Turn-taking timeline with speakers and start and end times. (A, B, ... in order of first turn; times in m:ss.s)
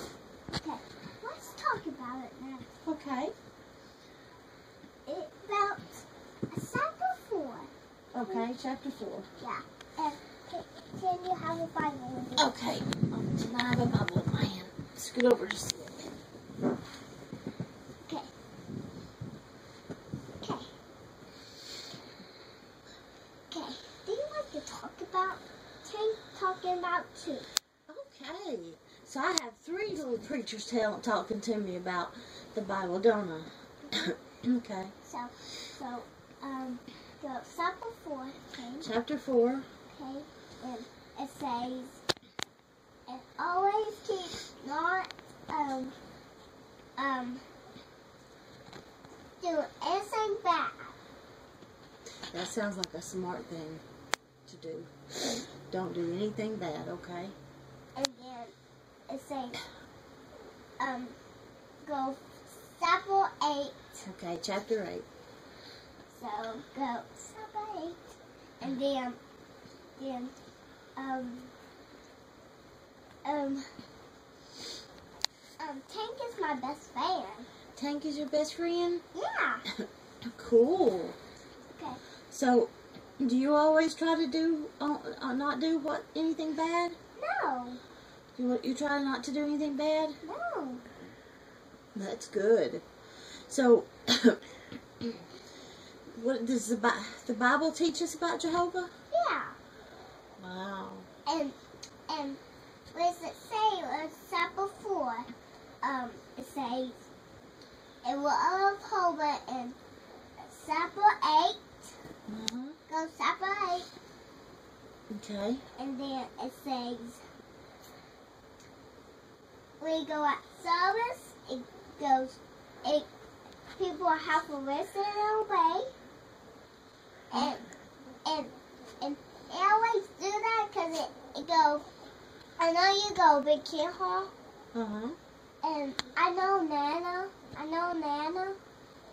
0:00.5-0:02.7 A
0:02.8-0:03.3 B
0:05.1-0:07.7 A
0:08.1-0:09.3 B
0:09.4-0:12.5 A
0:12.4-0:16.1 B
0:18.0-0:18.3 A
0:20.4-0:20.7 A
0:23.5-0:27.5 A
0:27.9-0:34.9 B
0:35.0-0:38.9 A
0:38.8-0:39.7 B
0:39.9-0:42.0 A
0:43.1-0:46.0 A
0:47.0-0:47.4 A
0:49.4-0:51.0 A
0:52.3-0:53.8 B
0:54.5-0:54.9 B
0:55.5-0:57.4 B
0:58.0-0:58.5 A
0:59.1-0:59.6 A
1:00.8-1:01.2 A
1:01.8-1:04.0 A
1:04.0-1:05.1 B
1:06.1-1:09.2 A
1:10.0-1:10.3 A
1:11.0-1:11.5 A
1:13.2-1:13.6 A
1:15.6-1:17.5 A
1:17.8-1:19.0 B
1:19.1-1:19.6 A
1:19.8-1:21.2 B
1:22.3-1:27.0 B
1:27.2-1:27.8 A
1:28.4-1:30.2 B
1:30.2-1:30.8 A
1:32.0-1:32.8 B
1:33.5-1:34.4 B
1:36.1-1:38.9 B
1:39.1-1:39.6 A
1:40.4-1:41.1 B
1:41.3-1:41.6 A
1:42.1-1:42.4 A
1:42.9-1:45.3 A
1:45.8-1:46.9 A
1:48.0-1:49.8 A
1:50.4-1:51.9 A
1:52.3-1:52.8 B
1:52.9-1:53.9 A
1:55.1-1:55.6 B
1:55.8-1:57.2 A
1:59.8-2:03.1 A
2:03.8-2:05.9 A
2:07.3-2:07.7 A
2:08.2-2:11.9 A
2:12.6-2:14.3 A
2:14.7-2:15.2 B
2:15.6-2:18.6 A